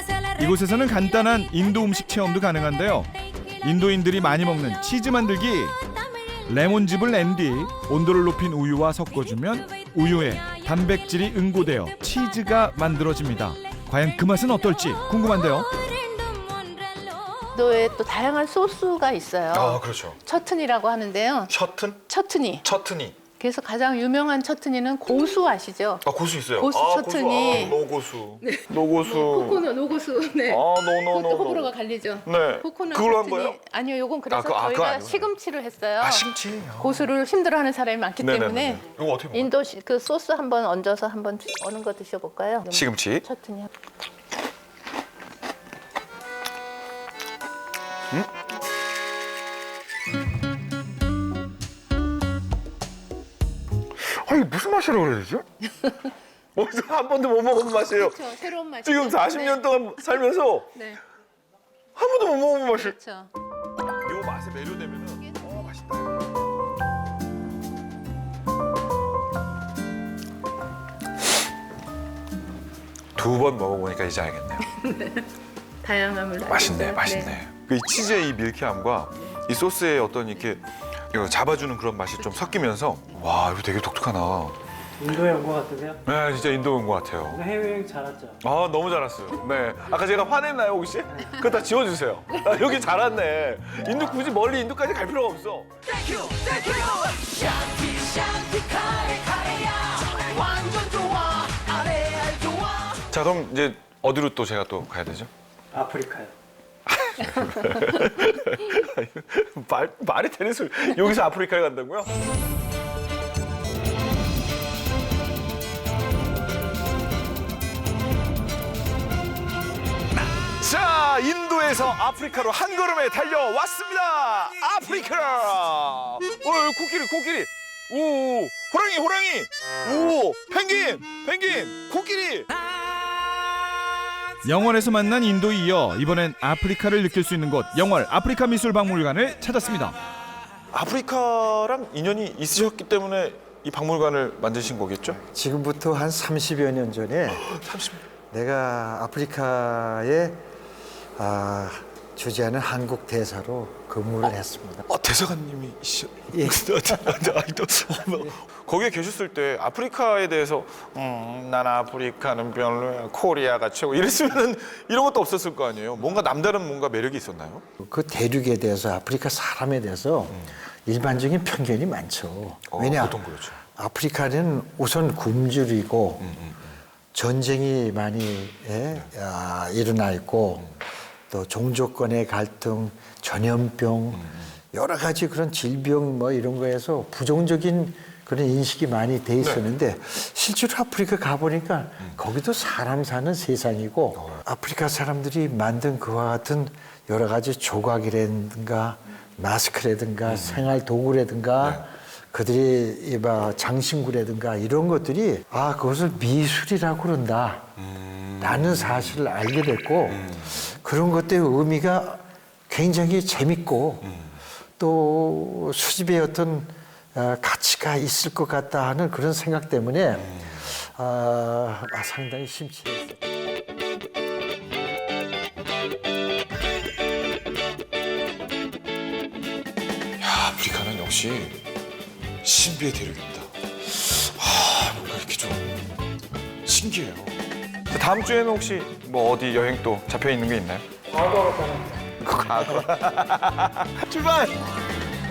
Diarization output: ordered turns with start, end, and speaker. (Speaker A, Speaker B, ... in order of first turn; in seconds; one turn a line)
Speaker A: 0.3-5.8
Speaker A: 6.5-15.7
Speaker B: 17.5-21.5
Speaker C: 19.5-20.2
Speaker C: 21.5-22.0
Speaker B: 22.1-22.6
Speaker C: 22.6-23.2
Speaker B: 23.4-26.0
Speaker C: 26.0-29.6
Speaker B: 26.6-27.8
Speaker B: 28.4-36.3
Speaker C: 30.5-31.7
Speaker C: 32.2-33.5
Speaker C: 34.3-35.3
Speaker C: 36.0-37.0
Speaker B: 36.8-43.7
Speaker C: 38.2-39.5
Speaker C: 42.7-43.2
Speaker C: 54.0-55.5
Speaker C: 56.5-58.2
Speaker B: 57.9-60.2
Speaker C: 58.8-60.7
Speaker B: 60.7-61.0
Speaker C: 62.0-62.9
Speaker B: 62.7-63.3
Speaker C: 64.0-66.2
Speaker B: 65.2-65.7
Speaker C: 73.2-74.7
Speaker B: 74.7-75.3
Speaker B: 75.8-77.4
Speaker C: 76.4-84.5
Speaker B: 82.2-82.5
Speaker D: 85.0-86.0
Speaker C: 86.0-87.4
Speaker D: 87.3-88.4
Speaker C: 88.4-97.0
Speaker D: 91.1-91.4
Speaker D: 97.9-99.1
Speaker D: 100.0-102.5
Speaker C: 103.0-105.3
Speaker D: 105.7-106.3
Speaker C: 106.9-112.1
Speaker C: 120.6-132.5
Speaker A: 134.4-140.0
Speaker C: 140.7-145.2
Speaker E: 145.1-147.5
Speaker C: 147.3-148.0
Speaker E: 148.3-150.4
Speaker E: 151.2-154.8
Speaker C: 154.9-167.6
Speaker E: 156.3-157.3
Speaker E: 167.8-176.3
Speaker C: 170.3-170.5
Speaker C: 172.7-173.6
Speaker C: 176.2-176.8
Speaker E: 177.1-207.8
Speaker C: 184.1-184.5
Speaker C: 189.4-189.7
Speaker C: 200.2-200.7
Speaker C: 207.8-209.2
Speaker E: 208.4-214.2
Speaker C: 210.1-210.7
Speaker C: 214.0-214.3
Speaker E: 214.8-223.2
Speaker C: 220.2-220.6
Speaker C: 230.2-231.6
Speaker C: 232.4-235.8
Speaker C: 236.6-237.3
Speaker C: 237.9-240.8
Speaker D: 241.1-242.7
Speaker C: 242.2-244.5